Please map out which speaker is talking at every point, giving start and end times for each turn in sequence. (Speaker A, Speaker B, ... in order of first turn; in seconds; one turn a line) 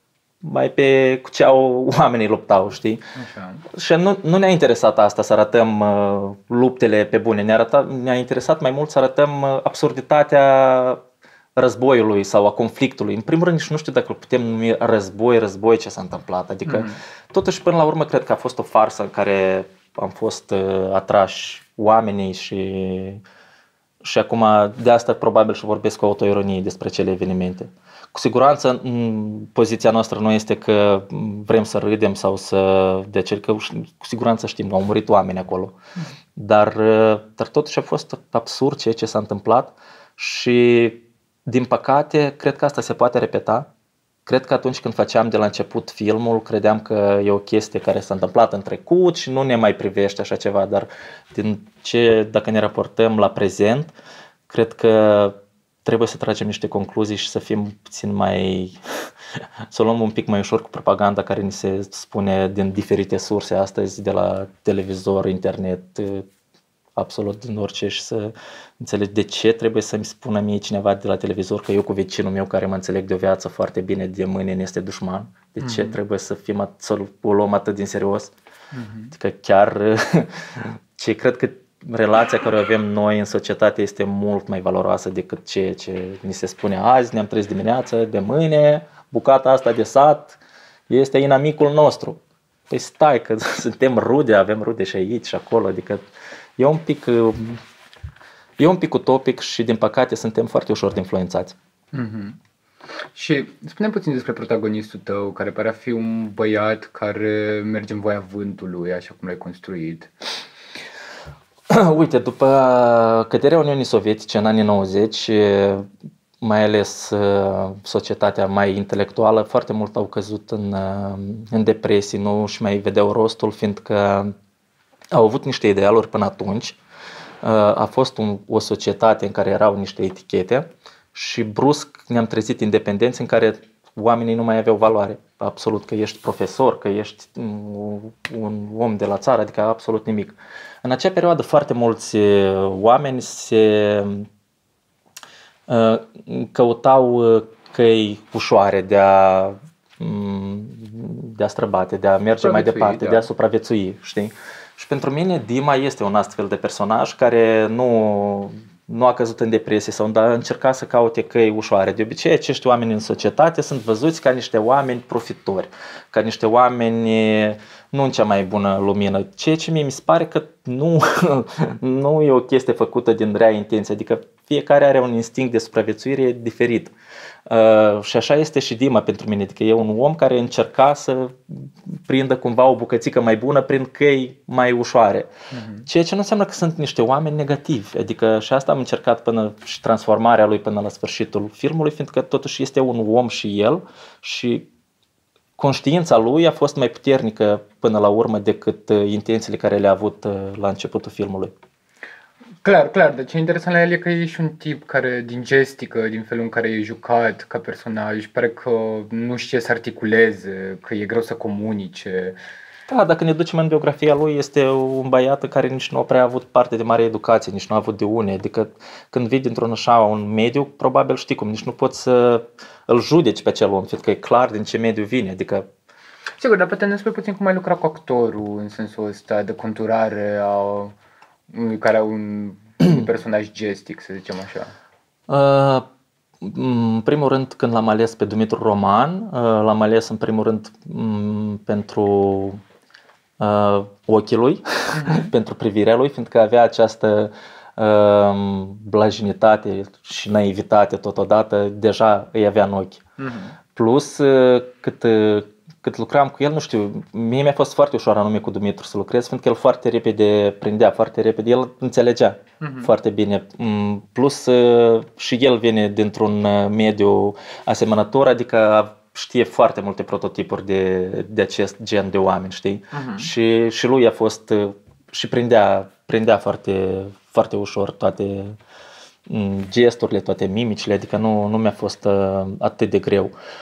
Speaker A: 0.4-3.0
Speaker B: 3.1-3.6
Speaker A: 3.7-11.0
Speaker A: 11.6-23.2
Speaker B: 16.6-17.0
Speaker A: 24.0-35.7
Speaker A: 36.4-43.7
Speaker A: 44.2-53.9
Speaker A: 54.5-58.8
Speaker A: 59.7-66.3
Speaker A: 67.0-78.3
Speaker B: 75.6-76.0
Speaker B: 78.7-79.1
Speaker A: 79.1-96.0
Speaker A: 96.6-97.6
Speaker A: 98.6-101.5
Speaker B: 101.9-102.4
Speaker B: 103.1-110.1
Speaker A: 111.7-115.9
Speaker A: 116.4-124.3
Speaker A: 125.1-126.8
Speaker A: 127.4-144.3
Speaker A: 145.7-176.9
Speaker B: 152.4-153.2
Speaker A: 177.5-185.3
Speaker B: 185.5-185.9
Speaker A: 185.9-194.7
Speaker A: 195.6-201.5
Speaker B: 202.6-212.4
Speaker A: 212.9-225.7
Speaker B: 226.4-230.9
Speaker B: 231.5-234.7
Speaker A: 235.3-235.8
Speaker A: 236.4-242.6
Speaker A: 243.4-253.0
Speaker B: 244.9-245.3
Speaker B: 253.2-253.6
Speaker A: 253.8-278.6
Speaker B: 262.6-262.9
Speaker B: 272.9-273.3
Speaker A: 279.3-283.3